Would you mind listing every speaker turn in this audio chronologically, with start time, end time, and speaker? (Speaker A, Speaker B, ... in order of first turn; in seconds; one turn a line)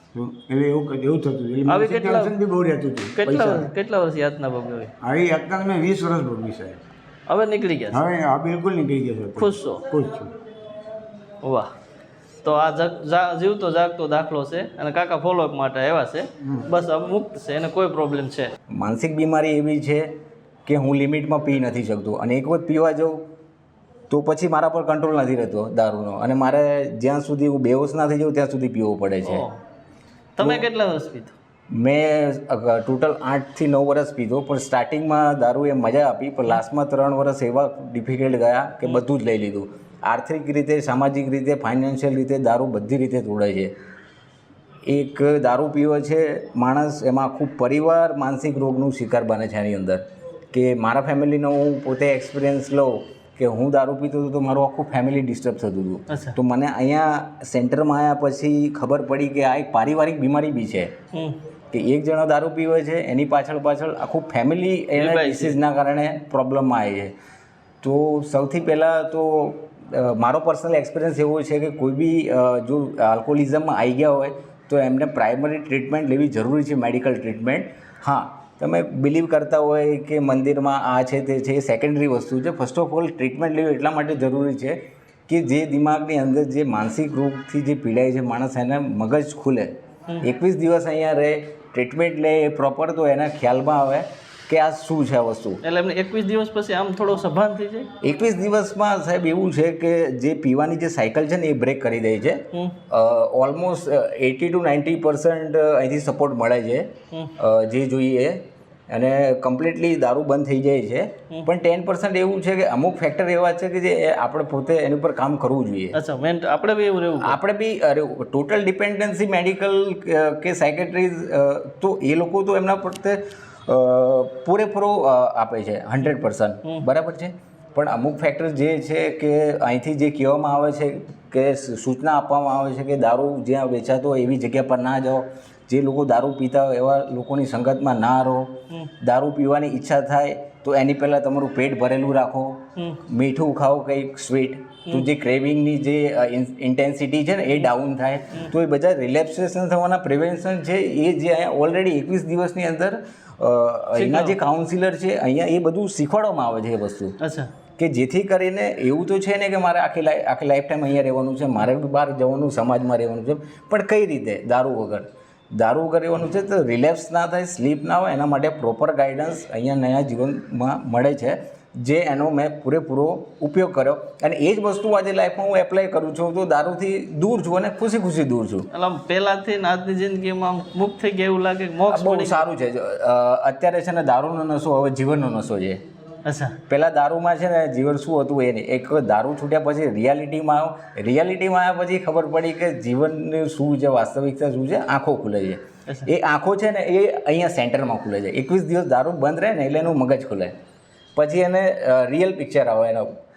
Speaker A: 0.1-3.7
Speaker B: 1.7-2.3
Speaker B: 3.2-4.9
Speaker A: 5.0-6.8
Speaker B: 7.3-8.0
Speaker A: 7.9-10.3
Speaker B: 9.3-9.8
Speaker B: 11.4-11.7
Speaker B: 12.4-18.5
Speaker A: 16.4-16.7
Speaker C: 18.7-23.3
Speaker C: 24.1-29.4
Speaker B: 29.2-29.6
Speaker B: 30.4-31.3
Speaker C: 30.4-30.7
Speaker C: 31.7-43.7
Speaker C: 44.9-60.9
Speaker B: 56.1-56.4
Speaker B: 61.1-61.4
Speaker C: 61.7-67.1
Speaker B: 64.9-65.6
Speaker C: 67.8-95.6
Speaker B: 95.6-97.9
Speaker C: 98.0-116.0
Speaker B: 115.9-117.4
Speaker C: 117.2-157.2
Speaker B: 153.9-154.3
Speaker B: 157.2-157.5
Speaker C: 157.8-178.7
Speaker B: 178.7-182.4
Speaker C: 181.9-185.8
Speaker B: 186.2-186.6
Speaker C: 186.7-200.6
Speaker C: 201.2-203.2